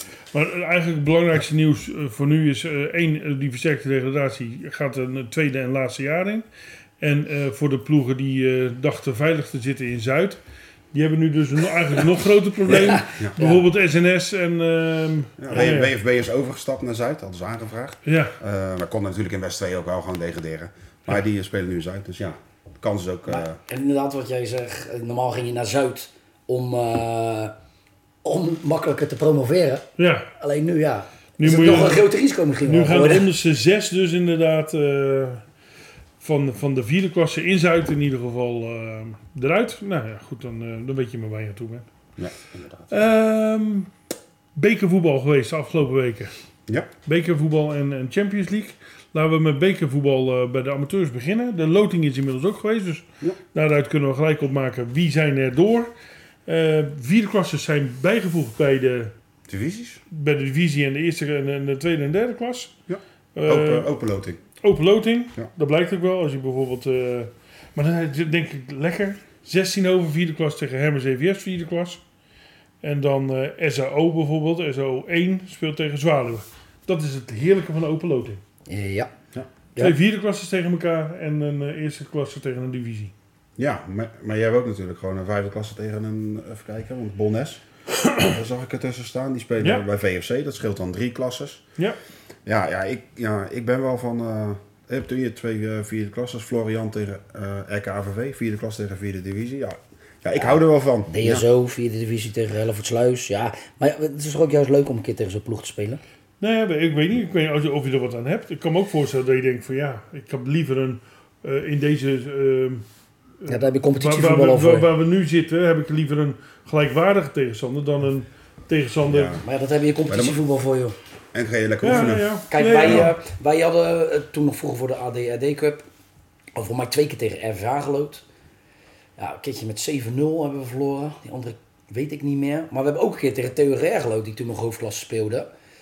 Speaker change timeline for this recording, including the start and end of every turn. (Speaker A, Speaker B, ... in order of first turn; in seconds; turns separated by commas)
Speaker A: 0.3-6.4, Speaker A: 7.0-10.4, Speaker A: 10.9-15.9, Speaker B: 12.8-13.6, Speaker C: 13.1-13.4, Speaker C: 15.4-23.6, Speaker A: 18.1-18.4, Speaker B: 23.3-27.5, Speaker B: 28.2-29.9, Speaker A: 30.0-30.3, Speaker B: 30.4-33.3, Speaker A: 31.4-32.1, Speaker A: 32.6-35.4, Speaker A: 36.2-41.9, Speaker C: 42.2-42.9, Speaker A: 42.9-43.9, Speaker A: 44.5-46.3, Speaker A: 47.0-55.9, Speaker A: 56.5-59.1, Speaker C: 59.5-60.0, Speaker A: 60.1-62.7, Speaker C: 62.9-64.4, Speaker A: 63.4-63.9, Speaker A: 64.6-72.0, Speaker A: 72.8-78.4, Speaker B: 78.7-79.1, Speaker A: 79.8-83.1, Speaker C: 83.6-87.6, Speaker A: 88.0-88.3, Speaker C: 88.2-91.6, Speaker A: 89.6-89.8, Speaker C: 92.4-101.4, Speaker B: 101.1-106.0, Speaker A: 106.4-112.8, Speaker A: 113.4-119.4, Speaker B: 113.5-114.9, Speaker C: 119.1-119.4, Speaker B: 119.4-120.9, Speaker C: 120.1-120.4, Speaker C: 121.3-122.3, Speaker A: 121.8-123.2, Speaker B: 122.5-125.8, Speaker B: 126.5-128.2, Speaker B: 129.2-135.5